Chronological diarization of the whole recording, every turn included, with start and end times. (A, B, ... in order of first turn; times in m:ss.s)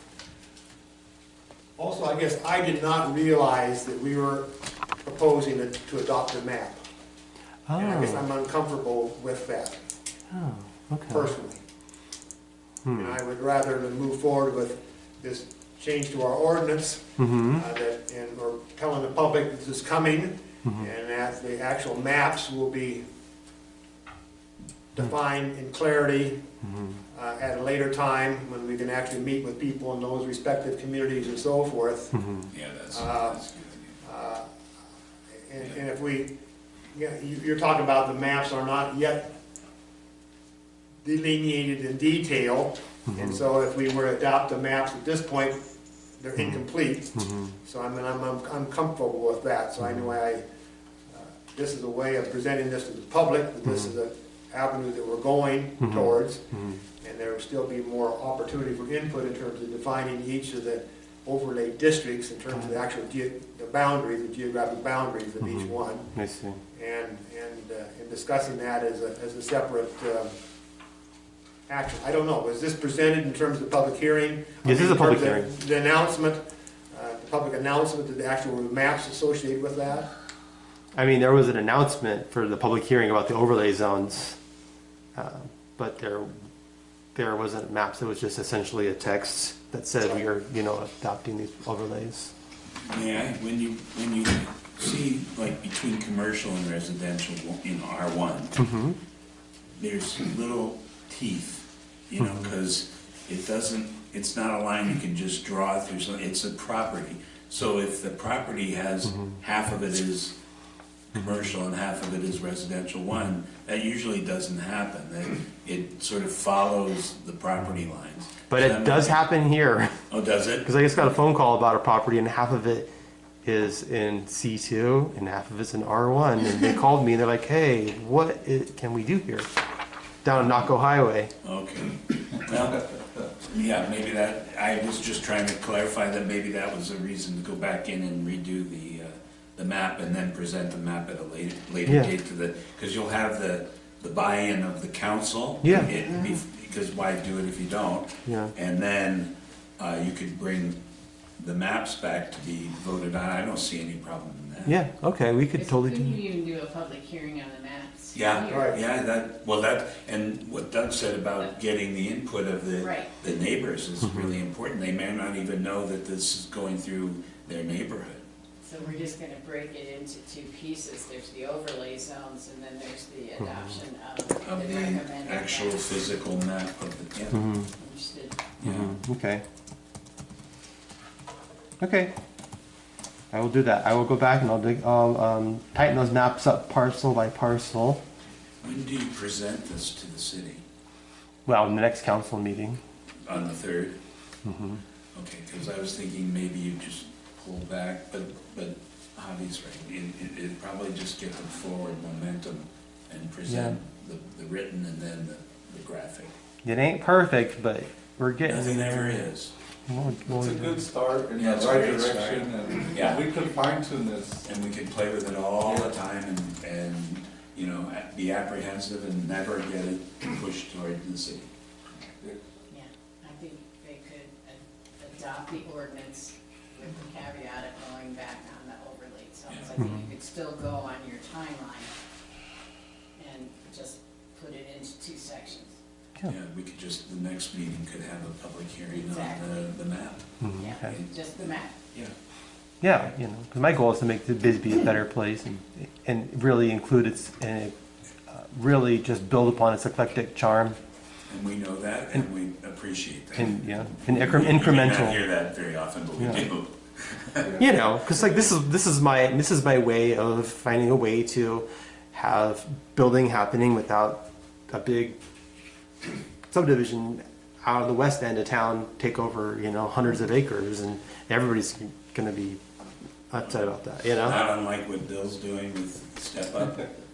0:01.8-0:04.5 A
0:05.0-0:06.8 A
0:07.7-0:08.2 B
0:07.8-0:09.8 A
0:10.3-0:11.3 B
0:11.1-0:11.6 A
0:12.8-0:13.2 B
0:12.9-0:23.0 A
0:17.2-0:17.6 B
0:24.9-0:26.4 A
0:26.6-0:27.0 B
0:27.1-0:32.3 A
0:32.2-0:32.5 B
0:32.5-0:33.9 C
0:32.9-0:33.4 A
0:34.0-0:34.4 A
0:35.4-0:36.3 A
0:36.9-0:39.3 A
0:41.0-0:45.6 A
0:43.1-0:43.4 B
0:46.2-0:50.4 A
0:47.2-0:47.5 B
0:51.1-0:56.4 A
0:55.8-0:56.8 B
0:57.0-1:06.1 A
1:06.1-1:06.6 B
1:06.7-1:10.3 A
1:11.7-1:20.1 A
1:14.6-1:15.5 B
1:20.9-1:24.4 B
1:25.1-1:26.3 B
1:27.1-1:32.3 B
1:32.8-1:38.6 C
1:38.6-1:39.0 B
1:39.8-1:50.3 C
1:42.2-1:42.5 B
1:51.1-1:59.2 C
1:58.5-2:00.0 B
2:00.1-2:00.7 C
2:00.6-2:02.9 B
2:03.4-2:09.5 B
2:10.2-2:11.3 B
2:11.4-2:12.9 C
2:13.4-2:30.8 C
2:25.6-2:25.9 B
2:28.2-2:28.5 B
2:31.4-2:34.8 C
2:34.6-2:36.2 B
2:35.5-2:38.7 D
2:38.1-2:48.2 C
2:38.5-2:38.8 A
2:42.8-2:43.1 D
2:48.6-2:56.1 D
2:54.4-2:57.5 C
2:57.3-2:57.7 B
2:57.8-2:58.4 D
2:58.6-2:58.9 C
2:58.6-2:59.4 B
3:01.8-3:02.1 B
3:03.3-3:08.0 B
3:08.6-3:10.6 C
3:11.4-3:12.8 B
3:13.2-3:14.0 C
3:14.4-3:14.8 B
3:15.1-3:26.3 C
3:23.5-3:23.8 B
3:26.6-3:29.3 B
3:28.4-3:29.5 C
3:29.9-3:30.8 B
3:30.2-3:34.4 E
3:31.4-3:33.4 C
3:34.4-3:41.5 C
3:42.7-3:51.9 D
3:49.8-3:50.1 B
3:53.2-3:55.7 D
3:56.2-4:00.2 C
3:59.0-3:59.7 D
4:00.4-4:00.9 B
4:00.6-4:01.8 D
4:02.8-4:07.7 B
4:08.3-4:10.8 B
4:11.3-4:17.6 C
4:13.4-4:15.2 B
4:17.6-4:25.2 B
4:26.5-4:32.6 B
4:33.3-4:34.4 B
4:34.2-4:36.9 C